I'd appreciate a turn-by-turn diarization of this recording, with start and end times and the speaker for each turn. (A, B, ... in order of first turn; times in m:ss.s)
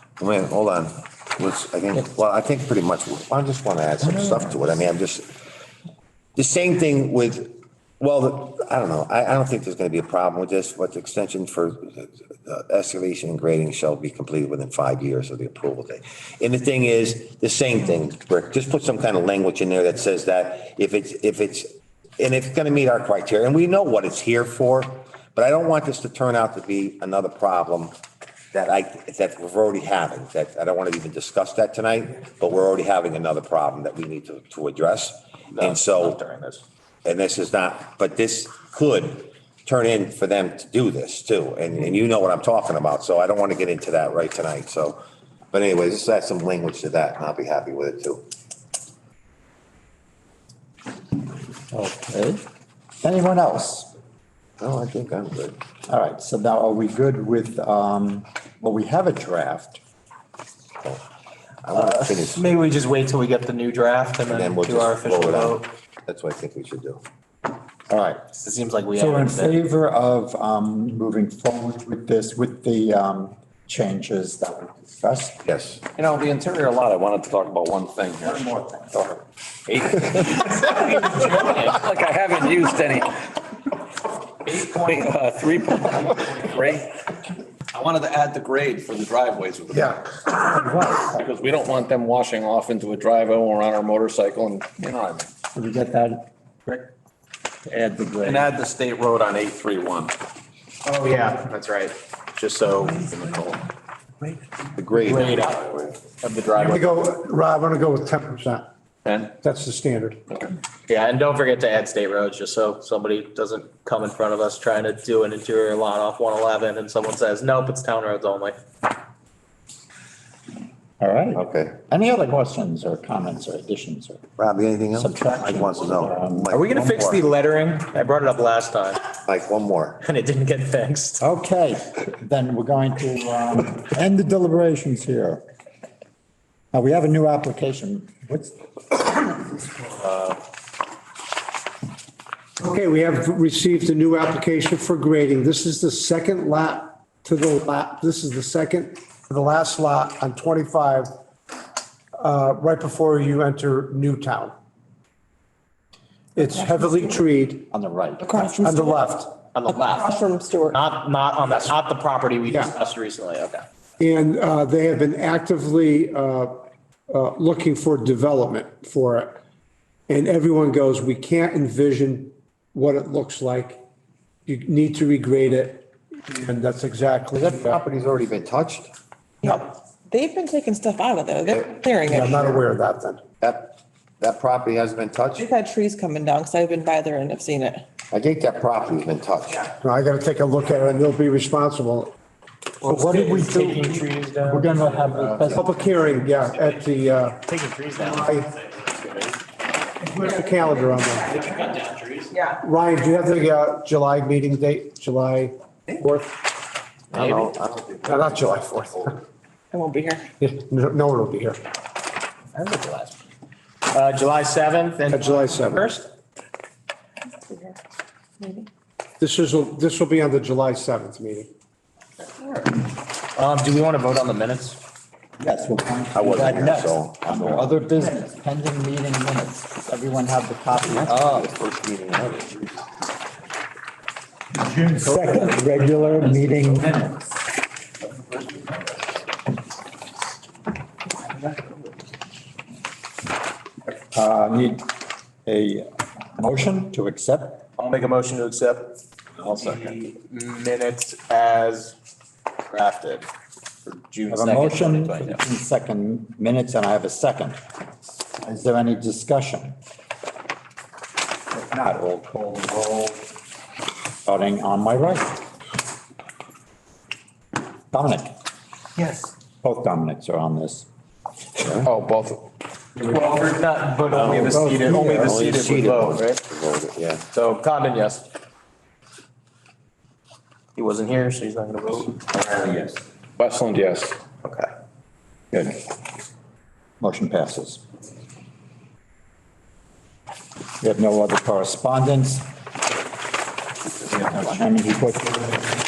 0:00.2-0:05.3 A
0:06.4-0:21.6 A
0:22.2-0:28.0 A
0:28.5-0:36.2 A
0:35.5-0:36.6 B
0:37.0-0:45.0 A
0:45.5-0:48.2 A
0:51.7-0:52.4 C
0:53.0-0:53.9 C
0:54.6-0:55.6 A
0:55.9-0:59.8 C
1:01.6-1:02.6 A
1:01.7-1:05.7 B
1:04.3-1:07.0 A
1:07.9-1:08.2 C
1:08.3-1:09.6 B
1:08.9-1:15.4 C
1:15.4-1:15.8 A
1:15.9-1:18.4 D
1:18.2-1:19.2 C
1:19.7-1:23.3 D
1:24.4-1:27.0 D
1:27.7-1:30.1 D
1:30.5-1:31.2 C
1:30.8-1:35.3 D
1:35.5-1:36.8 C
1:37.6-1:38.5 C
1:38.2-1:40.2 D
1:40.8-1:43.2 B
1:42.9-1:43.6 D
1:44.8-1:46.0 A
1:45.0-1:45.6 B
1:46.2-1:46.9 B
1:46.6-1:48.7 E
1:49.0-1:49.3 D
1:49.4-1:50.2 E
1:50.9-1:58.6 B
2:01.0-2:04.2 C
2:01.3-2:01.8 A
2:04.4-2:07.3 A
2:05.0-2:06.5 C
2:06.5-2:09.0 B
2:09.2-2:10.0 A
2:10.0-2:11.2 B
2:11.2-2:15.4 C
2:16.7-2:19.3 C
2:22.6-2:31.1 E
2:32.2-2:34.5 E
2:36.4-2:37.6 E
2:36.5-2:37.2 F
2:37.7-2:38.5 C
2:38.2-2:39.0 F
2:38.6-2:39.3 E
2:39.5-2:40.1 B
2:39.7-2:40.8 F
2:40.7-2:43.6 B
2:42.5-2:42.7 E
2:44.0-2:49.4 E
2:50.1-2:53.8 E
2:54.5-2:57.8 E
2:57.3-2:58.9 A
2:59.4-3:02.5 F
3:01.5-3:01.8 A
3:02.0-3:03.2 E
3:03.4-3:05.5 A
3:05.4-3:07.8 F
3:08.1-3:09.7 A
3:09.8-3:12.1 E
3:12.8-3:19.4 B
3:12.8-3:15.7 C
3:15.5-3:17.4 E
3:18.0-3:18.5 E
3:20.0-3:21.3 E
3:20.7-3:21.0 F
3:21.3-3:22.4 B
3:22.3-3:22.6 F
3:22.6-3:26.3 E
3:27.1-3:28.6 A
3:27.1-3:27.5 B
3:28.0-3:29.2 E
3:29.7-3:30.3 F
3:30.4-3:31.6 E
3:32.5-3:33.2 B
3:33.9-3:36.1 B
3:35.1-3:35.9 E
3:37.4-3:37.8 F
3:38.4-3:38.7 F
3:39.2-3:41.5 E
3:43.3-3:44.8 B
3:45.4-3:51.5 C
3:46.1-3:47.8 A
3:50.7-3:52.9 A
3:54.5-3:57.4 C
4:04.1-4:04.9 C
4:05.4-4:07.6 C
4:07.8-4:09.0 B
4:09.4-4:09.9 D
4:09.5-4:11.9 B
4:12.6-4:13.3 B
4:13.8-4:15.4 B
4:14.3-4:17.6 C
4:18.4-4:19.8 C
4:21.5-4:23.3 C
4:24.2-4:25.5 C
4:27.9-4:28.3 C
4:29.6-4:30.8 C
4:31.6-4:31.9 A
4:31.8-4:32.4 D
4:33.0-4:36.4 B
4:34.1-4:34.6 A
4:34.5-4:35.3 E
4:35.2-4:37.2 A
4:37.3-4:38.3 B
4:40.8-4:42.2 B
4:43.4-4:44.2 D
4:44.4-4:44.7 B
4:45.5-4:45.8 C
4:47.0-4:47.8 C
4:50.8-4:52.5 C
4:54.1-4:55.6 C